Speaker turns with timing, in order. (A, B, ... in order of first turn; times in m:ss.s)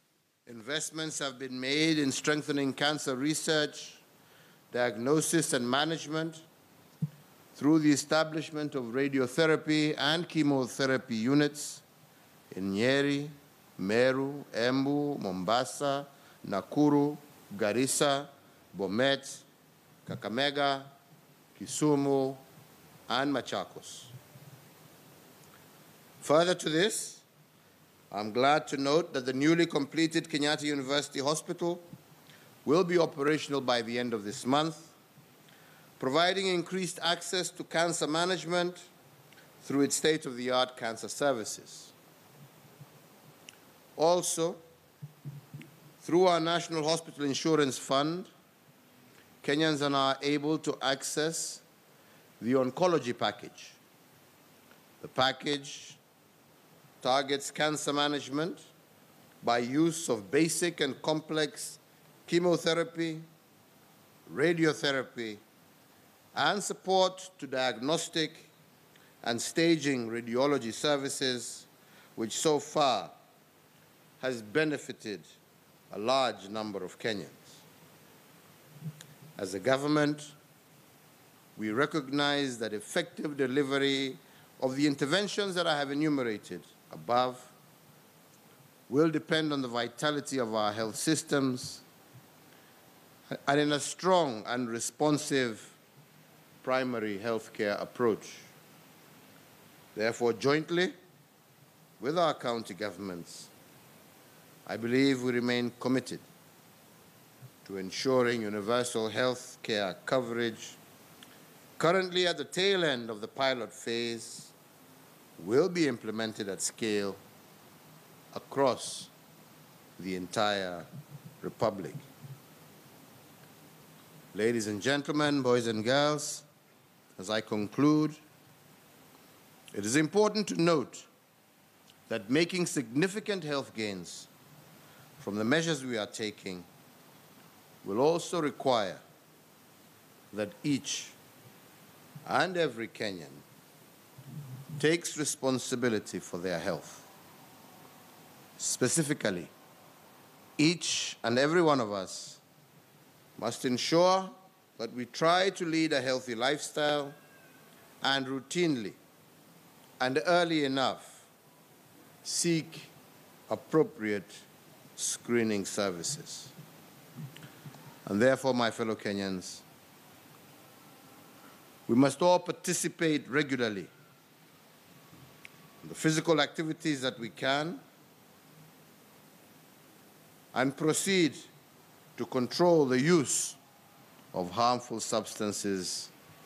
0:00.5-0:04.0 A
0:04.7-0:06.4 A
0:07.5-0:11.8 A
0:12.5-0:19.4 A
0:20.1-0:20.9 A
0:21.5-0:22.4 A
0:23.1-0:24.1 A
0:26.2-0:27.2 A
0:28.1-0:31.8 A
0:32.6-0:34.9 A
0:36.0-0:38.8 A
0:39.6-0:41.9 A
0:44.0-0:44.6 A
0:46.0-0:48.3 A
0:49.4-0:51.6 A
0:52.4-0:53.8 A
0:55.0-0:56.0 A
0:57.0-0:58.6 A
0:59.4-1:03.3 A
1:04.3-1:05.4 A
1:06.3-1:08.5 A
1:09.2-1:13.1 A
1:14.2-1:15.3 A
1:15.9-1:17.6 A
1:19.4-1:20.3 A
1:21.6-1:27.5 A
1:28.9-1:31.8 A
1:33.4-1:35.8 A
1:36.6-1:38.5 A
1:40.0-1:41.0 A
1:42.0-1:43.5 A
1:44.7-1:46.2 A
1:47.6-1:50.8 A
1:51.8-1:54.5 A
1:55.4-1:57.2 A
1:58.3-1:59.1 A
2:00.0-2:00.9 A
2:01.4-2:02.0 A
2:04.3-2:06.5 A
2:07.2-2:08.2 A
2:09.7-2:11.1 A
2:12.1-2:14.3 A
2:15.2-2:16.7 A
2:17.8-2:19.0 A
2:20.3-2:21.2 A
2:22.2-2:23.4 A
2:24.8-2:27.1 A
2:28.6-2:29.5 A
2:30.6-2:32.4 A
2:33.4-2:37.2 A
2:38.0-2:39.0 A
2:40.0-2:41.3 A
2:42.2-2:42.9 A
2:43.5-2:44.4 A
2:45.0-2:46.5 A
2:48.1-2:49.6 A
2:51.9-2:53.9 A
2:55.8-2:57.8 A
3:00.5-3:01.5 A
3:02.2-3:03.6 A
3:04.3-3:06.1 A